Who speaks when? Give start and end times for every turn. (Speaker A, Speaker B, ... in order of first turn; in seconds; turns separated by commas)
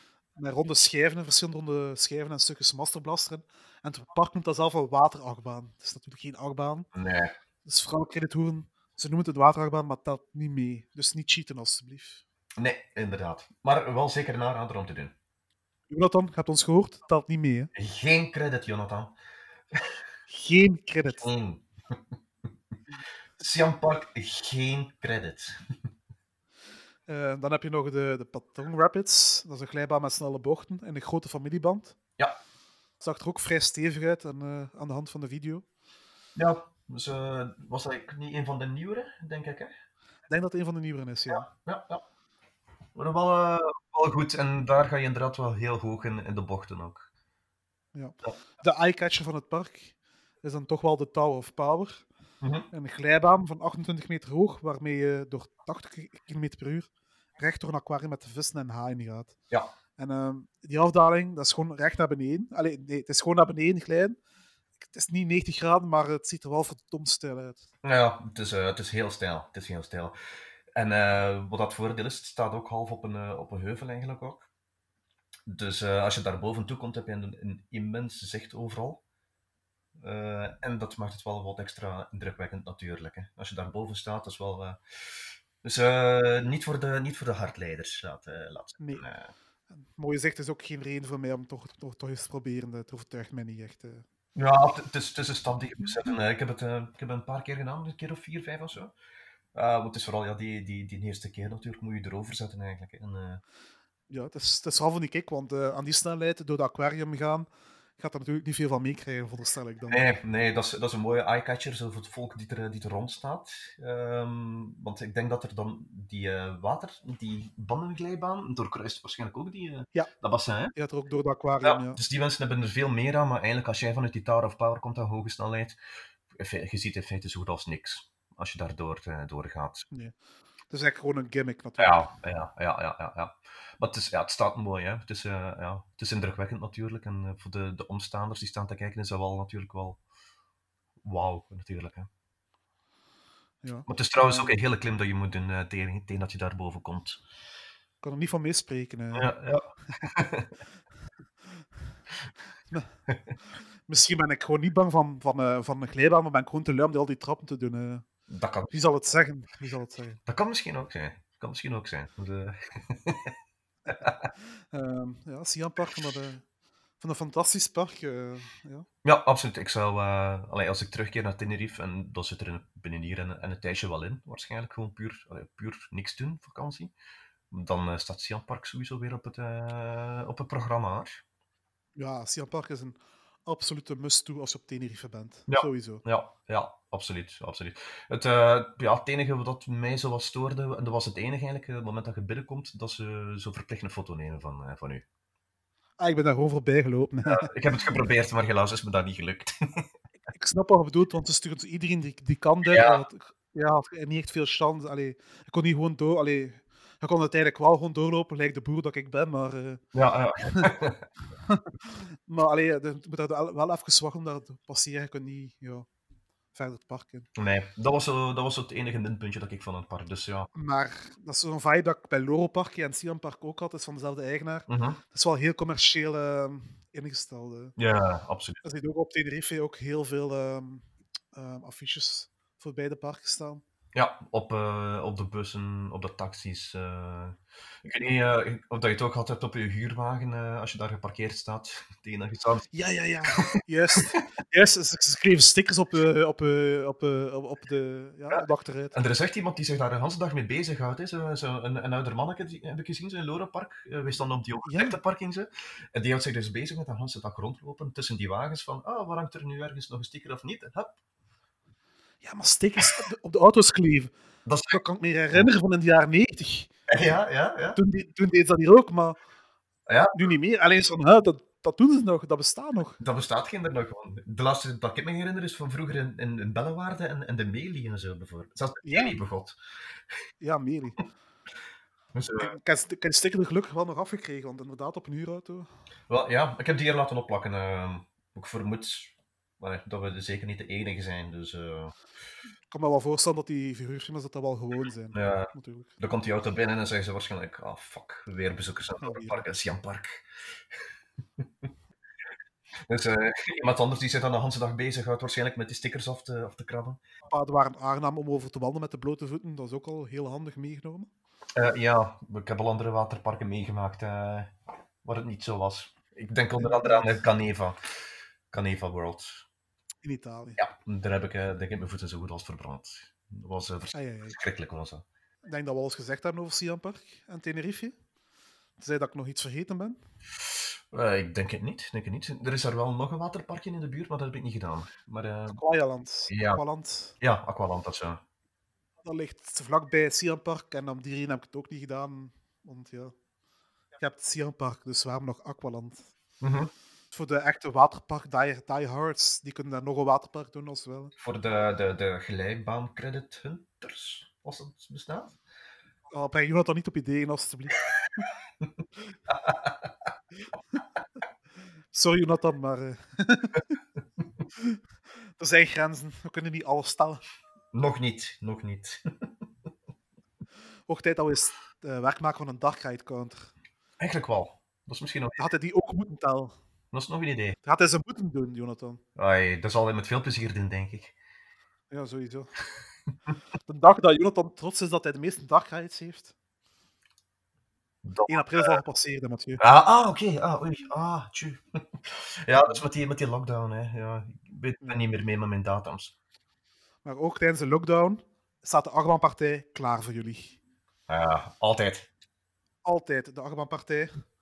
Speaker A: 0.4-6.9, Speaker B: 6.9-7.3, Speaker A: 7.6-12.2, Speaker B: 12.6-15.1, Speaker A: 15.9-17.7, Speaker B: 17.7-19.1, Speaker B: 19.7-20.0, Speaker A: 20.3-21.3, Speaker B: 21.2-22.0, Speaker B: 23.4-25.6, Speaker A: 27.1-31.9, Speaker A: 33.0-35.6, Speaker B: 36.4-39.7, Speaker A: 40.3-41.5, Speaker B: 41.3-42.0, Speaker B: 42.9-47.0, Speaker A: 47.9-52.0, Speaker B: 52.4-52.7, Speaker A: 52.7-59.3, Speaker A: 60.0-64.2, Speaker A: 64.9-67.7, Speaker B: 67.8-70.1, Speaker B: 70.7-74.5, Speaker B: 75.5-79.0, Speaker B: 80.0-89.3, Speaker A: 88.8-89.0, Speaker A: 89.7-94.0, Speaker B: 94.3-98.9, Speaker B: 99.5-103.4, Speaker A: 104.1-107.5, Speaker A: 108.0-110.1, Speaker B: 109.9-120.7, Speaker A: 120.7-122.0, Speaker B: 121.6-125.8, Speaker B: 126.3-129.9, Speaker A: 130.7-132.0, Speaker B: 131.8-140.0, Speaker B: 141.0-142.1, Speaker A: 143.6-144.5, Speaker B: 143.9-147.2, Speaker A: 148.0-149.3, Speaker B: 149.1-150.5, Speaker A: 153.9-158.1, Speaker B: 158.3-158.7, Speaker A: 158.7-160.2, Speaker B: 160.3-163.4, Speaker B: 163.9-164.3, Speaker A: 164.7-166.4, Speaker A: 167.0-168.9, Speaker B: 169.0-176.9, Speaker B: 177.5-181.2, Speaker A: 182.0-186.0, Speaker B: 185.5-195.1, Speaker A: 196.0-197.5, Speaker B: 197.3-199.9, Speaker A: 200.3-209.8, Speaker B: 202.7-203.0, Speaker B: 209.9-211.1, Speaker A: 210.4-210.7, Speaker A: 211.4-215.9, Speaker A: 216.5-217.3, Speaker B: 217.4-220.5, Speaker A: 220.5-227.8, Speaker B: 224.7-225.0, Speaker B: 227.8-228.6, Speaker A: 228.6-233.6, Speaker B: 233.9-242.7, Speaker A: 242.7-248.9, Speaker B: 248.9-260.9, Speaker A: 254.6-255.0, Speaker A: 262.2-264.1, Speaker B: 264.4-264.8, Speaker A: 264.7-266.7, Speaker B: 266.9-267.8, Speaker A: 267.8-269.2, Speaker B: 269.9-270.2, Speaker A: 270.1-273.0, Speaker B: 273.0-279.6, Speaker A: 278.8-279.2, Speaker A: 280.4-281.0, Speaker B: 282.1-282.5, Speaker A: 282.3-285.7, Speaker B: 286.1-291.9, Speaker A: 292.7-295.9, Speaker B: 295.1-300.8, Speaker A: 299.0-299.4, Speaker B: 302.8-307.0, Speaker A: 307.3-311.1, Speaker B: 311.6-317.8, Speaker A: 316.6-317.2, Speaker B: 318.5-319.4, Speaker A: 320.0-320.6, Speaker B: 320.6-325.0, Speaker A: 323.9-324.4, Speaker A: 325.4-327.9, Speaker A: 328.8-330.0, Speaker B: 330.5-335.6, Speaker A: 335.5-337.1, Speaker B: 336.3-336.6, Speaker B: 337.2-338.2, Speaker A: 339.0-343.1, Speaker A: 344.0-346.0, Speaker B: 346.4-346.7, Speaker A: 347.1-351.1, Speaker B: 351.2-355.4, Speaker A: 356.1-358.2, Speaker B: 359.3-359.9, Speaker A: 361.9-363.8, Speaker A: 365.4-367.2, Speaker B: 367.7-369.3, Speaker A: 370.9-373.5, Speaker B: 374.0-375.4, Speaker A: 375.4-376.5, Speaker B: 376.9-377.6, Speaker A: 377.6-379.0, Speaker B: 379.1-381.1, Speaker A: 381.9-382.5, Speaker A: 383.7-386.3, Speaker B: 388.0-388.8, Speaker A: 388.3-389.6, Speaker B: 389.6-396.1, Speaker A: 394.8-395.1, Speaker A: 397.1-400.6, Speaker B: 401.1-402.1, Speaker A: 402.8-404.2